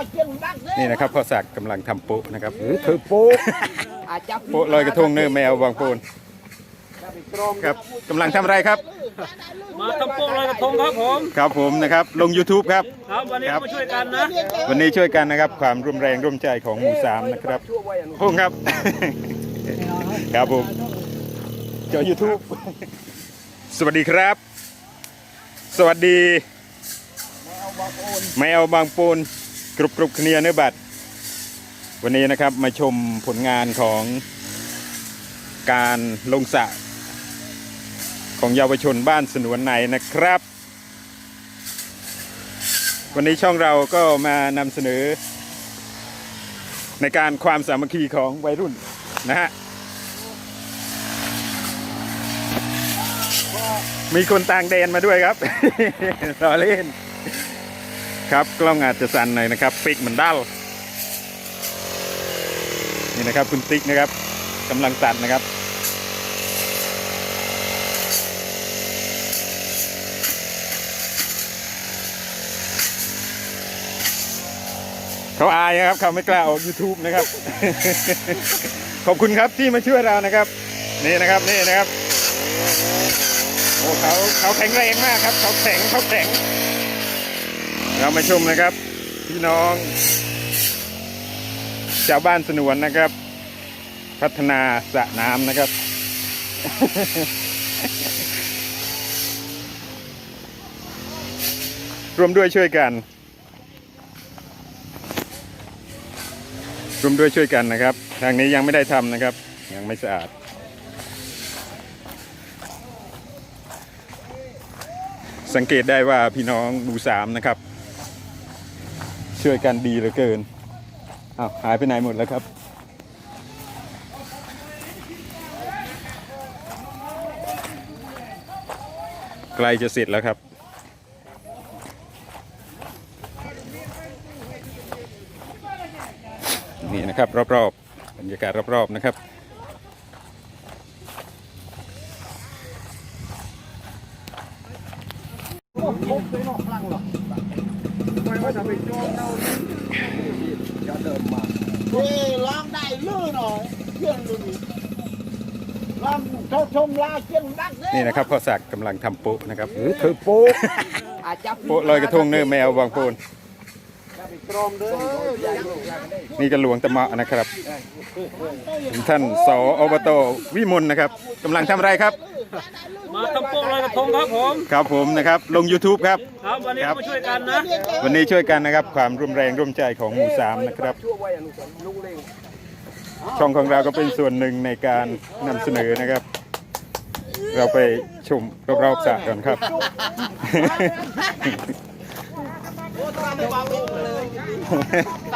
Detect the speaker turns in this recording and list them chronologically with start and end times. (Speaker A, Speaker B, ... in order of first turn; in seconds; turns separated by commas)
Speaker A: 0.7-3.8, Speaker B: 2.8-3.5, Speaker B: 4.1-5.1, Speaker A: 4.5-6.0, Speaker A: 7.6-9.0, Speaker C: 9.5-11.3, Speaker A: 11.3-13.9, Speaker C: 13.2-14.4, Speaker A: 14.5-20.8, Speaker A: 21.9-22.9, Speaker A: 23.7-24.4, Speaker A: 25.7-26.4, Speaker A: 28.3-30.8, Speaker A: 32.0-34.2, Speaker A: 35.6-36.8, Speaker A: 38.4-40.4, Speaker A: 43.1-45.2, Speaker A: 47.0-49.5, Speaker A: 54.1-57.0, Speaker A: 58.3-60.5, Speaker A: 63.1-64.1, Speaker A: 64.7-65.5, Speaker A: 75.4-81.9, Speaker A: 83.8-86.4, Speaker A: 87.9-89.9, Speaker A: 92.0-93.1, Speaker A: 94.2-95.7, Speaker A: 96.6-97.3, Speaker A: 102.2-103.0, Speaker A: 107.0-110.3, Speaker A: 115.5-117.6, Speaker A: 119.3-120.5, Speaker A: 121.4-122.5, Speaker A: 129.5-130.4, Speaker A: 136.8-139.2, Speaker B: 148.5-149.1, Speaker B: 152.0-154.5, Speaker B: 156.1-157.2, Speaker A: 157.8-160.9, Speaker B: 159.8-160.6, Speaker B: 161.2-161.7, Speaker A: 161.6-163.2, Speaker B: 164.7-165.9, Speaker A: 166.3-167.5, Speaker A: 168.9-172.3, Speaker C: 173.0-174.6, Speaker A: 174.7-177.2, Speaker C: 176.4-177.8, Speaker A: 177.8-181.0, Speaker B: 181.2-182.2, Speaker A: 183.3-186.3, Speaker A: 187.4-191.6, Speaker B: 193.2-194.3, Speaker A: 194.7-195.1